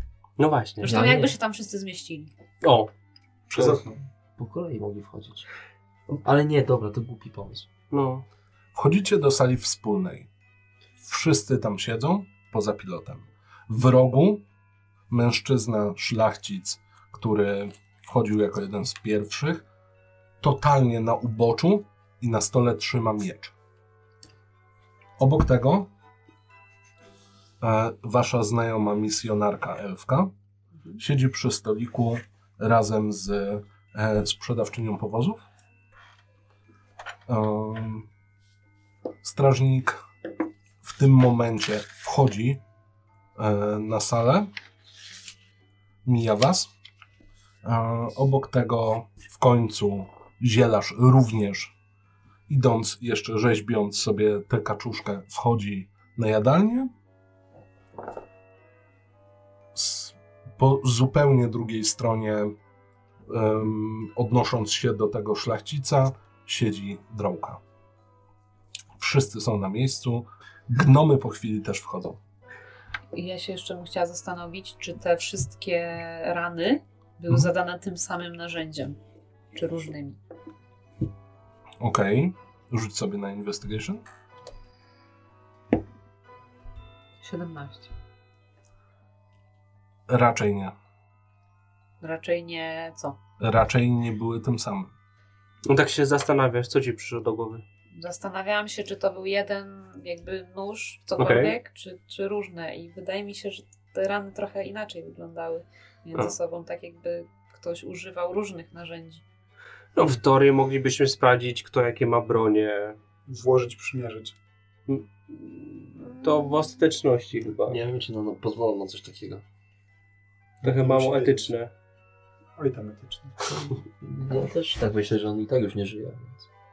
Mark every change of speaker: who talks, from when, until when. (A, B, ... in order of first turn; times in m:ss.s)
0:00.4-0:01.0 A
0:00.8-0:02.3 B
0:00.8-0:01.3 C
0:02.6-0:02.9 A
0:03.5-0:04.0 D
0:04.4-0:05.4 C
0:06.2-0:07.7 C
0:07.9-0:08.2 A
0:08.7-0:10.3 E
0:11.0-0:14.4 E
0:15.1-0:19.6 E
0:20.4-0:23.5 E
0:25.2-0:25.9 E
0:27.6-0:30.3 E
0:31.0-0:35.4 E
0:37.3-0:38.1 E
0:39.2-0:40.0 E
0:40.8-0:42.6 E
0:43.4-0:44.5 E
0:46.0-0:46.7 E
0:47.6-0:51.7 E
0:52.5-0:56.9 E
0:59.7-1:02.5 E
1:03.3-1:07.6 E
1:09.0-1:12.2 E
1:13.1-1:19.0 B
1:19.5-1:20.2 B
1:21.8-1:24.0 E
1:27.2-1:27.9 B
1:30.1-1:30.7 E
1:32.0-1:33.2 B
1:33.4-1:34.9 E
1:35.6-1:37.6 A
1:37.9-1:49.2 B
1:41.2-1:41.5 A
1:49.9-1:53.0 A
1:53.3-1:54.3 D
1:54.9-1:57.8 A
1:57.7-1:59.4 C
2:00.6-2:01.7 A
2:00.6-2:01.5 D
2:02.6-2:03.4 D
2:03.5-2:06.5 C